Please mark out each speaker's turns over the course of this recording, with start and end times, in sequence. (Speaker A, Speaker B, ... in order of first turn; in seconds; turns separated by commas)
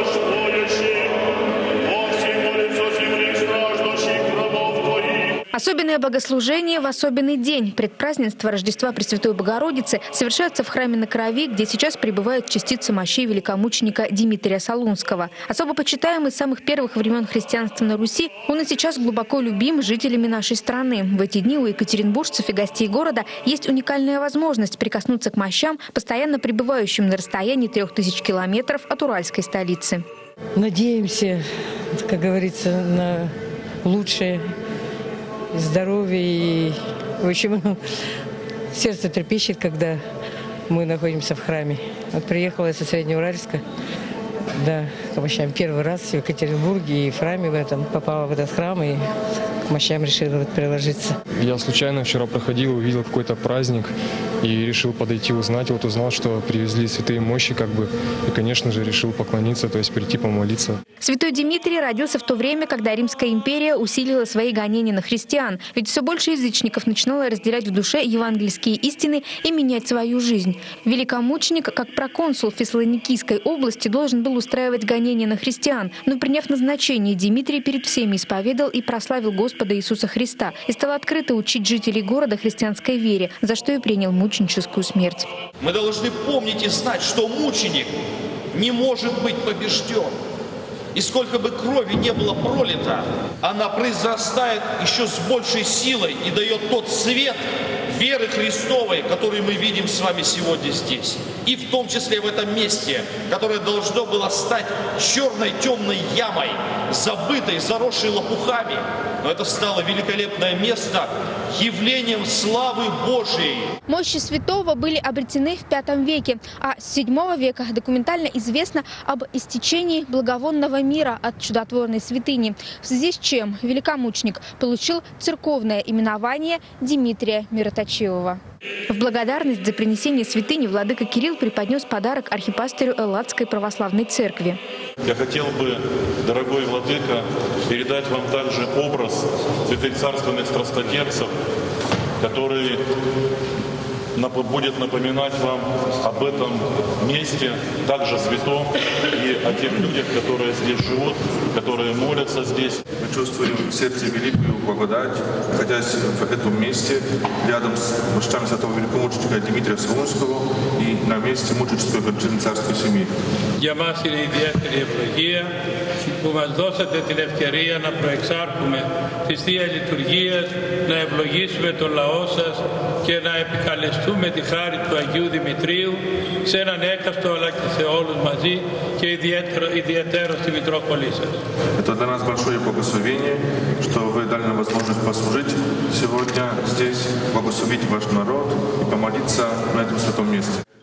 Speaker A: 5.5-30.0, Speaker B: 30.6-33.3, Speaker B: 33.8-34.5, Speaker B: 35.5-37.8, Speaker B: 38.7-40.0, Speaker B: 40.7-43.6, Speaker B: 44.6-49.1, Speaker B: 49.7-51.1, Speaker C: 51.4-60.8, Speaker A: 61.0-85.3, Speaker D: 85.6-87.9, Speaker D: 88.5-90.2, Speaker D: 90.9-113.7, Speaker A: 113.9-134.6, Speaker E: 135.0-141.3, Speaker E: 142.2-142.8, Speaker E: 144.2-152.8, Speaker F: 153.0-163.1, Speaker G: 163.6-165.5, Speaker G: 166.0-181.4, Speaker F: 181.8-190.6